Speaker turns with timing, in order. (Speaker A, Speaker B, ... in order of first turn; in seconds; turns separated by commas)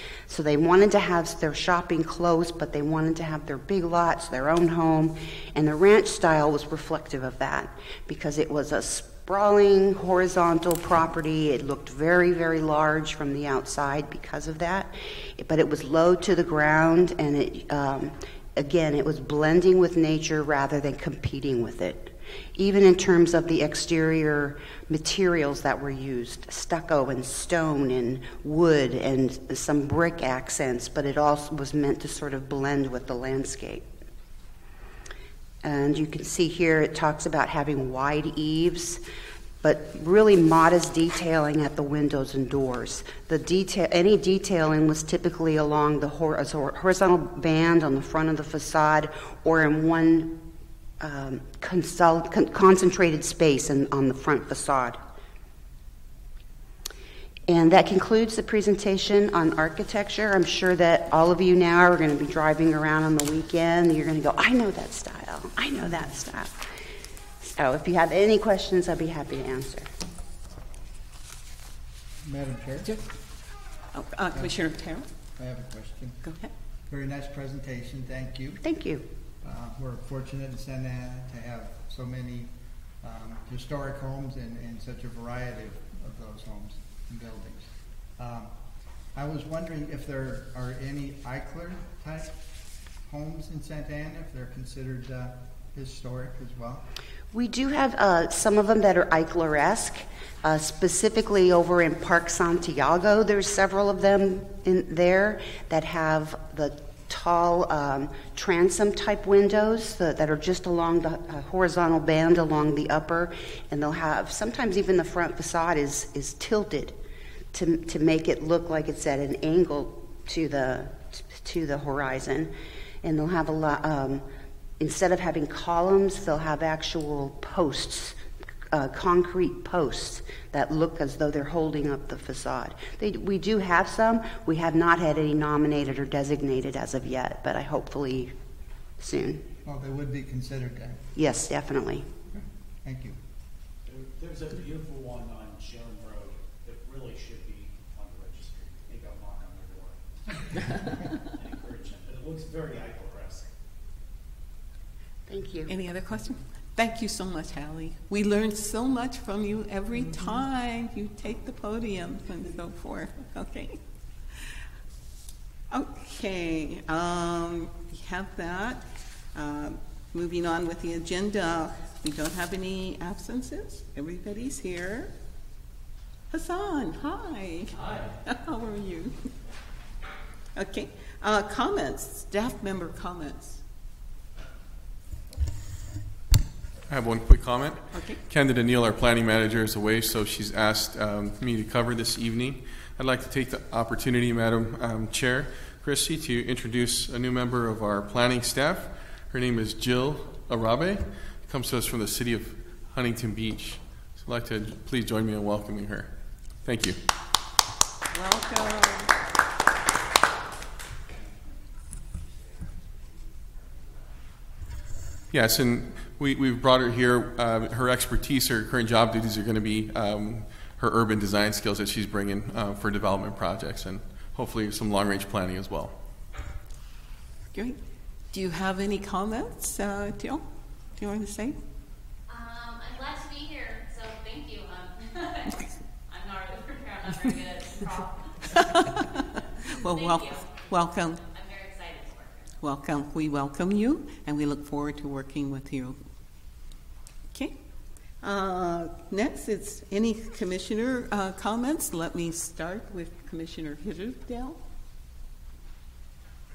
Speaker A: 0.3-33.9, Speaker A: 35.6-39.0, Speaker A: 39.6-50.4, Speaker A: 51.0-55.0, Speaker A: 57.5-66.7, Speaker A: 67.4-69.9, Speaker B: 72.2-72.9, Speaker C: 73.9-75.1, Speaker B: 75.4-76.2, Speaker C: 76.2-76.5, Speaker B: 76.9-78.6, Speaker A: 78.6-79.1, Speaker B: 79.4-88.5, Speaker B: 89.2-92.4, Speaker B: 93.1-96.9, Speaker A: 97.3-117.0, Speaker A: 117.5-122.5, Speaker A: 123.0-124.2, Speaker A: 124.8-128.2, Speaker A: 128.7-138.3, Speaker A: 139.0-139.5, Speaker B: 139.7-141.1, Speaker A: 141.2-142.1, Speaker B: 142.8-143.2, Speaker D: 143.8-153.5, Speaker A: 155.3-155.7, Speaker C: 155.7-163.8, Speaker C: 164.3-164.6, Speaker C: 165.7-175.1, Speaker C: 176.3-179.3, Speaker C: 180.6-183.6, Speaker E: 186.9-207.0, Speaker C: 187.9-188.2, Speaker C: 208.1-209.2, Speaker E: 215.3-226.0, Speaker C: 227.5-227.8, Speaker C: 228.3-231.6, Speaker F: 232.3-238.8, Speaker C: 238.5-239.1, Speaker F: 239.6-242.5, Speaker C: 239.7-241.2, Speaker C: 242.6-246.0, Speaker C: 247.3-247.6, Speaker C: 248.2-254.6